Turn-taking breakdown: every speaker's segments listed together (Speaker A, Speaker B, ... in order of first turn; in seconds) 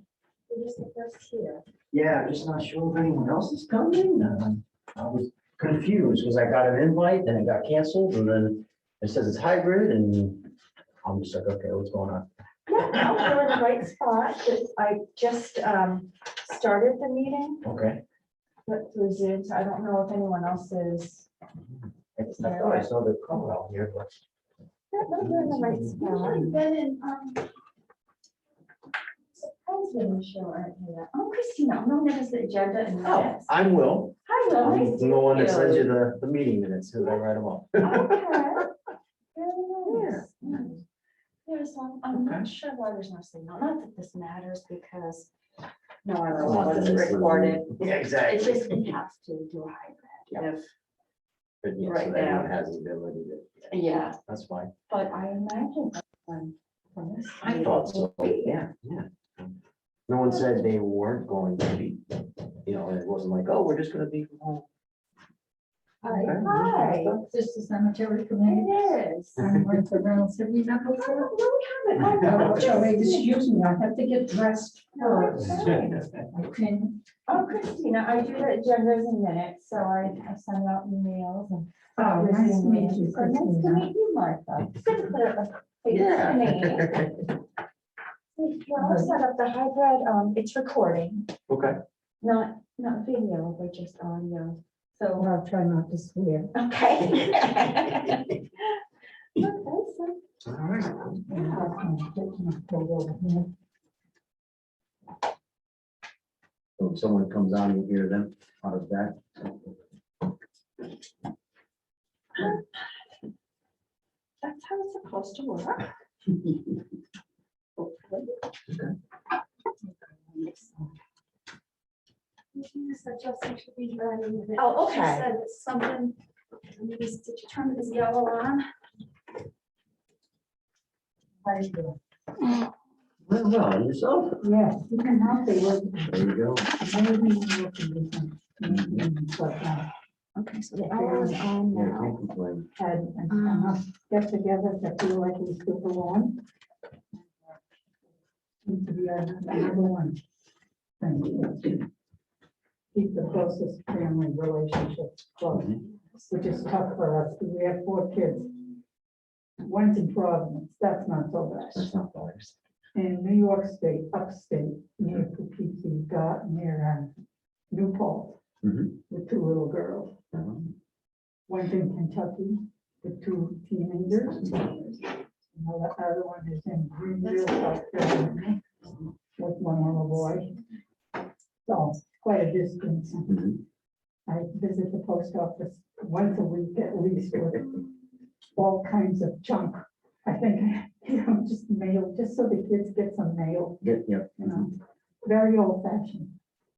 Speaker A: 0.5-1.6, 12.7-17.6, 18.6-21.3, 22.2-22.9, 24.9-26.6, 29.3-33.5, 34.2-35.9, 37.8-38.7, 39.3-40.8, 41.5-45.3, 46.0-50.7, 51.8-52.6, 53.7-54.2, 54.9-58.6, 66.0-67.2, 68.4-69.4, 70.9-73.4, 74.9-76.0, 77.3-87.0, 88.3-91.3, 92.2-95.3, 96.5-98.4, 99.4-100.2, 101.3-101.7, 112.3-112.6, 114.4-115.9, 117.8-118.2, 124.5-125.3, 140.3-142.2, 143.3-143.8
Speaker B: 1.9-10.5, 11.0-12.3, 12.9-13.3, 17.6-18.0, 22.2-24.1, 25.2-26.3, 33.0-38.6, 39.9-40.7, 42.1-42.5, 46.3-48.8, 51.6-54.7, 57.4-59.6, 60.1-64.7, 66.1-66.5, 72.2-72.6, 75.4-76.0, 85.9-87.1, 91.5-91.8, 100.4-101.2, 106.8-109.8, 118.7-118.9, 133.2-134.4, 136.1-136.7, 138.6-139.1, 141.7-142.7, 155.5-155.8, 161.7-162.6, 168.6-168.9, 170.3-170.7, 174.3-174.9, 183.3-183.6, 193.8-194.7
Speaker C: 26.1-27.3, 122.6-126.2, 126.7-128.6
Speaker D: 66.0-71.3, 72.0-77.0, 82.0-83.9, 88.8-89.2, 95.2-96.5, 101.3-103.5, 120.3-120.7, 131.4-132.0, 134.4-139.9, 140.7-141.4, 142.8-146.4, 148.6-150.2, 151.0-151.9, 152.9-158.5, 159.6-161.9, 162.9-167.1, 167.7-168.4, 169.1-170.1, 171.5-174.5, 175.5-178.6, 179.3-180.5, 181.6-183.5, 184.3-187.8, 188.5-193.8, 194.4-194.7, 195.2-196.3